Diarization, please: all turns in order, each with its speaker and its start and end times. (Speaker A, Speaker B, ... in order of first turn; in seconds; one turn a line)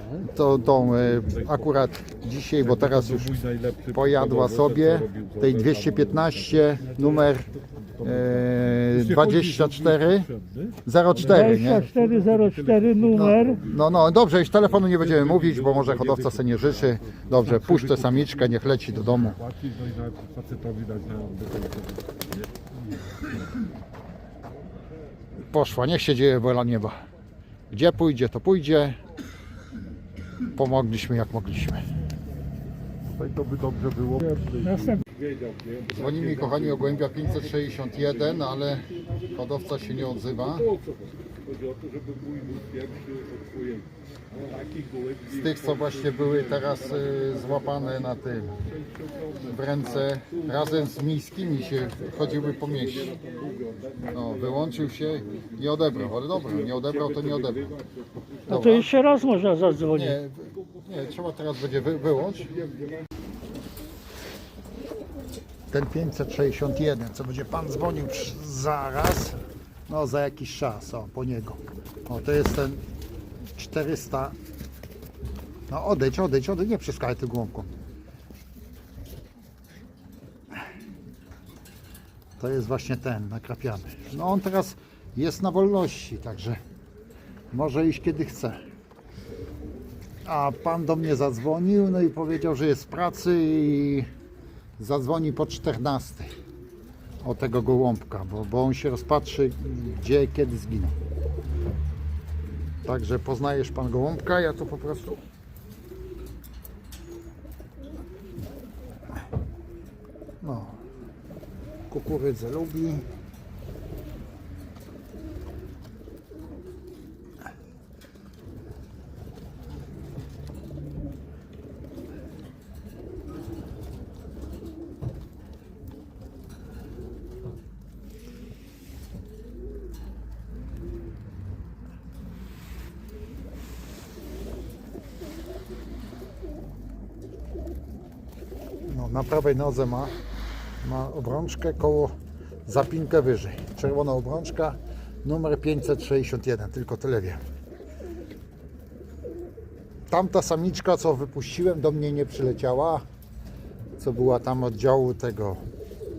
Speaker A: 0.2-3.4
Speaker B: 2.6-8.4
Speaker A: 3.9-7.5
Speaker A: 8.0-10.3
Speaker B: 8.9-13.8
Speaker A: 10.9-11.8
Speaker C: 11.3-13.6
Speaker A: 13.7-19.4
Speaker B: 14.7-22.5
Speaker A: 25.5-26.9
Speaker A: 27.7-29.0
Speaker A: 30.6-31.8
Speaker B: 33.1-36.8
Speaker C: 34.7-35.0
Speaker A: 35.9-40.7
Speaker B: 40.6-43.9
Speaker B: 44.7-45.2
Speaker A: 45.3-48.5
Speaker A: 49.4-53.1
Speaker A: 54.1-57.8
Speaker A: 58.5-58.9
Speaker C: 58.5-60.2
Speaker A: 59.9-62.7
Speaker A: 65.7-72.8
Speaker A: 73.6-74.4
Speaker A: 75.7-77.7
Speaker A: 82.4-86.6
Speaker A: 87.5-88.6
Speaker A: 90.2-94.1
Speaker A: 94.8-96.3
Speaker A: 97.2-101.0
Speaker A: 102.8-105.2
Speaker A: 110.4-110.8
Speaker A: 111.9-113.1
Speaker A: 138.9-140.1
Speaker A: 140.8-142.1
Speaker A: 142.7-147.4
Speaker A: 150.1-153.0
Speaker A: 154.0-155.6